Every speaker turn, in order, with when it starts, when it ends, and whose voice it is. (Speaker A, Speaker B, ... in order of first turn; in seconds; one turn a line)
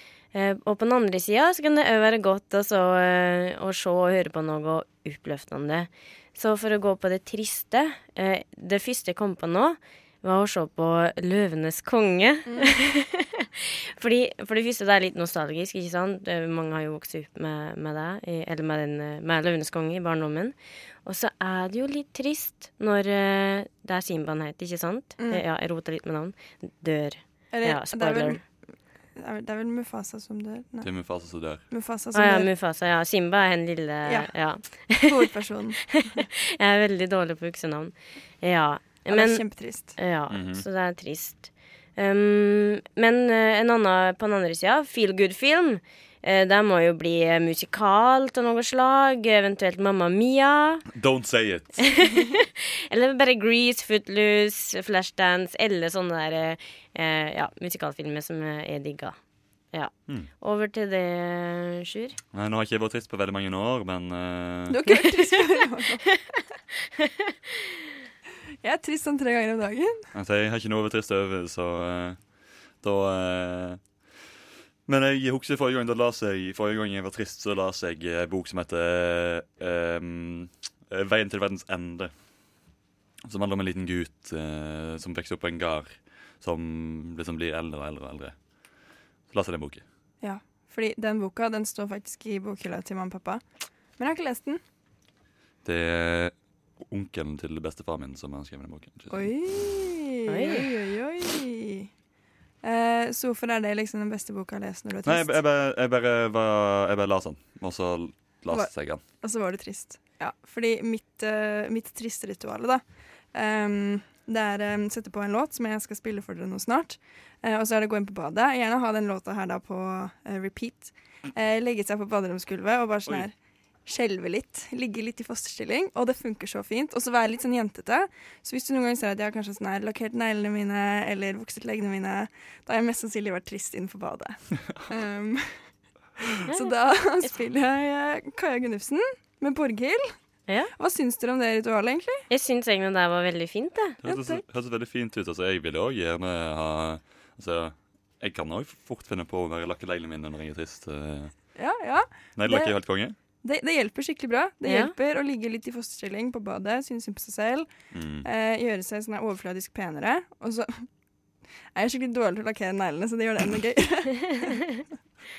Speaker A: 0.3-28.4
Speaker B: 12.5-12.7
Speaker B: 25.2-25.4
Speaker B: 27.5-28.4
Speaker B: 29.2-30.9
Speaker C: 30.8-31.6
Speaker B: 31.7-32.5
Speaker A: 32.1-35.3
Speaker B: 34.1-34.3
Speaker B: 35.0-36.2
Speaker A: 35.9-39.4
Speaker B: 39.1-40.0
Speaker A: 40.0-50.9
Speaker C: 40.3-40.6
Speaker C: 50.9-51.9
Speaker A: 51.8-59.2
Speaker A: 59.7-62.2
Speaker C: 62.3-64.8
Speaker B: 64.7-66.1
Speaker A: 66.1-68.0
Speaker B: 68.6-70.1
Speaker C: 70.1-72.2
Speaker C: 72.8-73.8
Speaker C: 74.9-82.1
Speaker C: 83.2-88.4
Speaker C: 89.3-89.8
Speaker B: 90.2-93.4
Speaker B: 94.0-94.6
Speaker C: 95.6-99.6
Speaker B: 99.1-101.9
Speaker A: 100.3-100.7
Speaker B: 102.6-105.4
Speaker C: 105.0-109.0
Speaker B: 109.2-112.8
Speaker B: 113.3-123.3
Speaker B: 123.9-135.6
Speaker B: 136.2-140.1
Speaker B: 140.8-142.3
Speaker A: 142.3-144.0
Speaker C: 144.0-151.3
Speaker B: 144.0-144.4
Speaker B: 151.6-152.8
Speaker C: 152.4-153.2
Speaker B: 153.4-157.7
Speaker A: 154.7-154.9
Speaker C: 157.9-158.3
Speaker B: 158.2-160.9
Speaker B: 161.8-164.6
Speaker A: 164.2-164.8